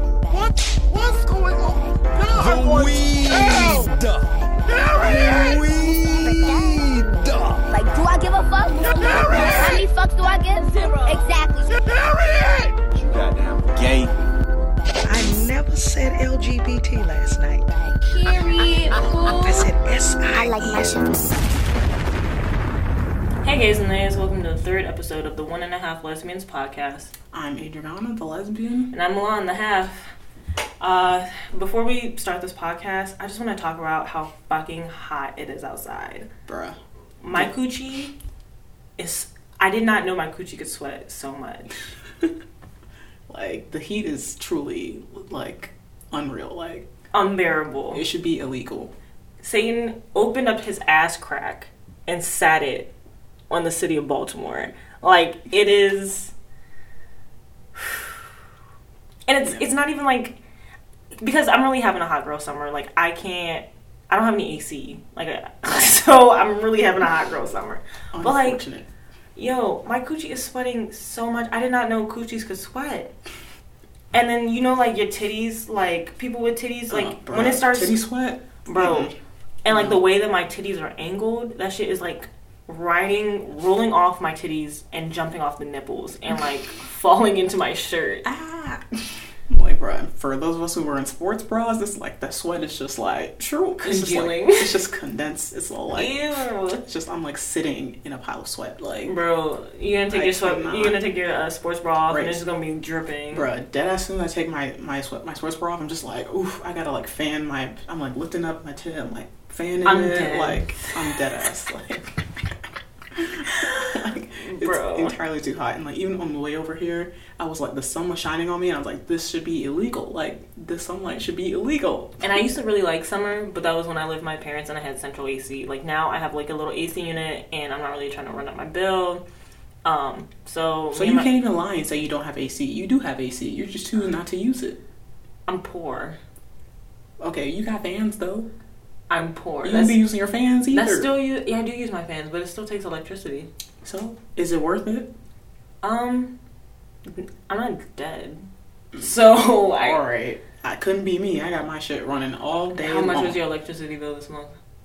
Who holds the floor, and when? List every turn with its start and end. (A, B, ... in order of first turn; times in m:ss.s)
0:00.3-0:07.6 A
0:02.4-0:02.9 B
0:03.4-0:03.8 B
0:05.0-0:11.7 B
0:08.8-0:09.8 A
0:11.8-0:14.1 A
0:15.0-0:17.6 C
0:18.0-0:19.6 B
0:19.1-0:21.0 C
0:20.3-0:21.4 B
0:23.4-0:27.1 D
0:27.3-0:28.9 E
0:28.9-0:30.1 D
0:30.8-0:36.3 D
0:36.5-0:36.8 E
0:37.2-0:38.1 D
0:39.0-0:41.8 D
0:43.3-0:46.9 E
0:47.1-0:48.0 D
0:47.9-0:48.9 E
0:49.4-0:52.9 D
0:53.5-0:56.3 D
0:57.8-0:58.2 D
0:59.2-1:00.4 D
1:01.2-1:08.6 D
1:08.1-1:08.9 E
1:09.4-1:13.1 D
1:14.1-1:18.0 D
1:16.9-1:19.1 E
1:18.6-1:19.1 D
1:19.6-1:28.2 D
1:19.7-1:20.0 E
1:28.2-1:36.2 E
1:33.8-1:34.7 D
1:35.9-1:36.8 D
1:36.8-1:39.1 E
1:39.0-1:43.5 D
1:40.1-1:41.0 E
1:42.1-1:42.4 E
1:43.3-1:52.6 E
1:49.8-1:50.9 D
1:53.1-2:02.2 E
1:54.3-1:55.2 D
2:02.2-2:09.2 D
2:09.8-2:11.3 D
2:10.9-2:14.8 E
2:15.5-2:16.2 D
2:17.2-2:18.5 E
2:19.1-2:20.0 D
2:19.6-2:21.1 E
2:20.7-2:23.5 D
2:23.8-2:25.1 E
2:25.8-2:26.3 D
2:27.1-2:28.4 D
2:28.9-2:29.2 E
2:29.0-2:30.0 D
2:29.7-2:33.4 E
2:32.8-2:34.5 D